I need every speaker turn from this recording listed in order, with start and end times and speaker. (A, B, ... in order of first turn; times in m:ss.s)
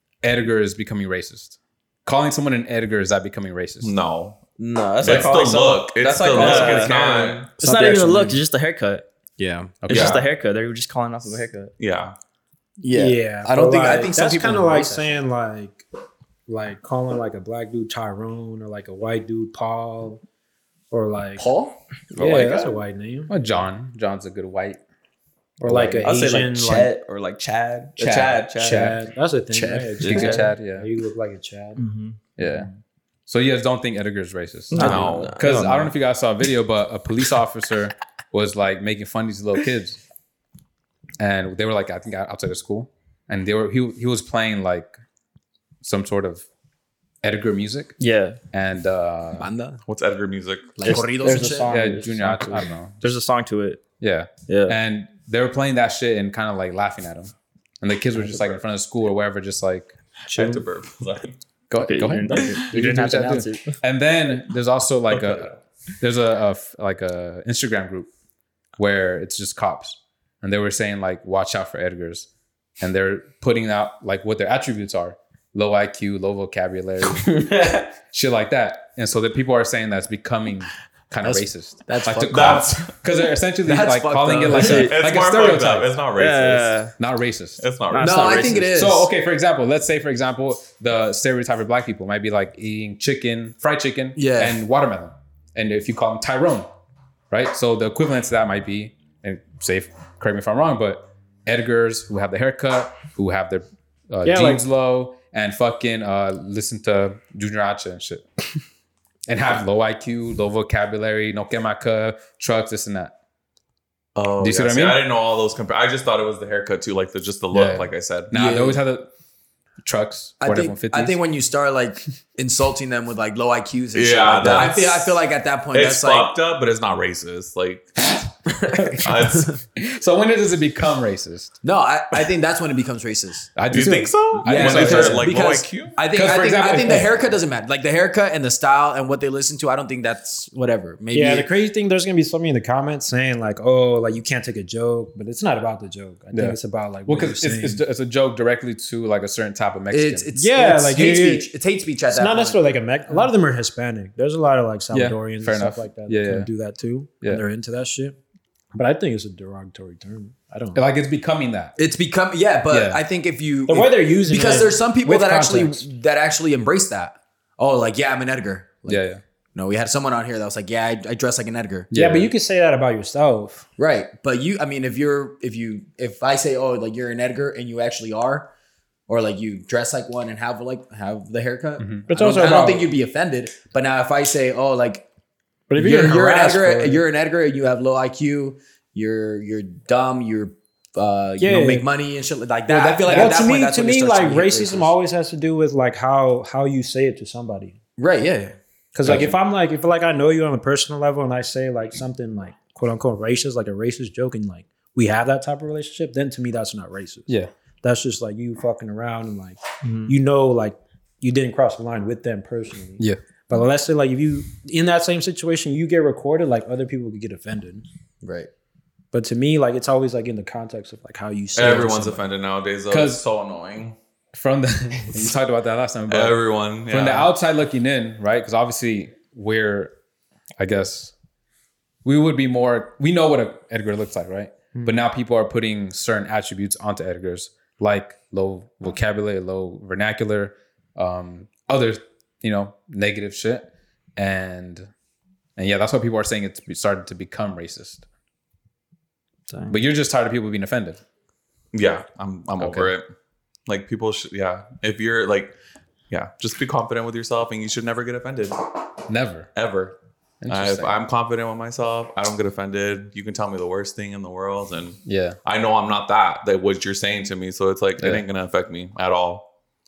0:00.2-0:03.9 A
0:03.8-0:04.4 B
0:04.6-0:07.5 C
0:05.0-0:07.5 B
0:06.3-0:06.9 D
0:07.6-0:09.0 D
0:07.6-0:08.4 E
0:09.4-0:09.8 E
0:09.8-0:10.2 A
0:09.9-0:11.7 D
0:09.9-0:10.2 B
0:11.8-0:12.1 B
0:12.8-0:15.2 E
0:12.9-0:15.8 F
0:16.5-0:20.2 F
0:20.9-0:21.5 F
0:21.4-0:21.8 E
0:22.2-0:23.3 F
0:23.3-0:24.8 A
0:25.6-0:26.9 F
0:25.6-0:26.0 A
0:26.0-0:28.9 C
0:28.0-0:29.0 A
0:28.6-0:31.8 F
0:29.5-0:30.1 E
0:30.0-0:30.4 C
0:30.0-0:30.9 A
0:31.8-0:32.2 D
0:32.4-0:32.7 A
0:33.3-0:40.0 A
0:34.7-0:35.3 D
0:34.7-0:35.4 B
0:34.8-0:35.7 C
0:41.2-0:44.9 A
0:45.8-0:46.4 A
0:47.2-0:48.0 A
0:48.0-0:48.4 D
0:48.5-0:49.5 A
0:49.4-0:49.8 E
0:49.8-0:50.8 B
0:50.8-0:51.8 E
0:50.8-0:53.8 D
0:51.6-0:53.0 A
0:54.0-0:59.9 A
0:54.5-0:54.8 D
1:00.3-1:01.4 B
1:01.7-1:08.1 A
1:01.7-1:03.8 D
1:05.1-1:05.5 B
1:08.8-1:12.3 A
1:12.8-1:17.4 A
1:17.1-1:17.9 C
1:18.1-1:26.0 A
1:21.2-1:22.7 E
1:22.3-1:22.9 B
1:23.6-1:24.9 E
1:24.5-1:24.9 D
1:24.6-1:26.8 B
1:26.1-1:26.9 D
1:27.0-1:27.6 A
1:27.6-1:28.4 B
1:27.9-1:28.8 D
1:28.0-1:29.1 E
1:28.7-1:36.7 A
1:34.2-1:34.6 E
1:37.3-1:48.2 A
1:44.2-1:44.6 F
1:49.3-1:53.1 A
1:54.1-1:58.3 B
1:54.4-1:55.0 A
1:57.5-1:59.1 A
1:58.3-1:58.8 E
1:59.8-2:01.2 A
2:00.4-2:06.3 E
2:03.9-2:07.9 B
2:04.4-2:04.7 A
2:08.5-2:09.0 C
2:09.0-2:09.6 B
2:09.2-2:09.6 E
2:09.8-2:11.6 A
2:11.6-2:13.5 E
2:13.6-2:15.3 A
2:13.7-2:16.0 B
2:14.4-2:21.5 E
2:16.1-2:17.1 A
2:21.1-2:27.8 F
2:26.3-2:30.3 A
2:29.9-2:32.6 E
2:30.3-2:31.5 F
2:32.1-2:38.2 F
2:34.9-2:36.5 A
2:38.7-2:40.8 F
2:40.7-2:41.7 A
2:41.8-2:51.9 E
2:42.7-2:43.0 A
2:43.7-2:45.8 F
2:48.8-2:49.2 A
2:51.9-2:52.3 A
2:51.9-2:53.6 F
2:53.8-2:58.5 E
2:59.1-3:05.0 E
3:01.8-3:02.1 A
3:02.1-3:02.9 F
3:05.7-3:07.0 F
3:05.8-3:14.9 E
3:11.4-3:11.9 F
3:12.7-3:13.4 A
3:12.7-3:17.8 F
3:18.0-3:18.6 E
3:18.9-3:37.8 F
3:19.0-3:19.3 A
3:29.8-3:30.1 D
3:38.2-3:38.5 E
3:39.1-3:42.2 F
3:41.5-3:44.0 B
3:42.9-3:43.2 A
3:44.3-3:46.4 A
3:46.1-3:47.3 B
3:46.9-3:49.9 A
3:50.6-3:51.1 A
3:52.0-4:04.9 A
4:05.6-4:08.0 A
4:09.7-4:11.0 A
4:11.7-4:13.0 B
4:12.6-4:12.9 A
4:13.7-4:15.5 B
4:16.1-4:18.6 B
4:19.1-4:19.5 A
4:19.5-4:20.0 B
4:20.4-4:20.9 A
4:20.5-4:29.5 B
4:25.0-4:25.4 A
4:28.0-4:28.2 A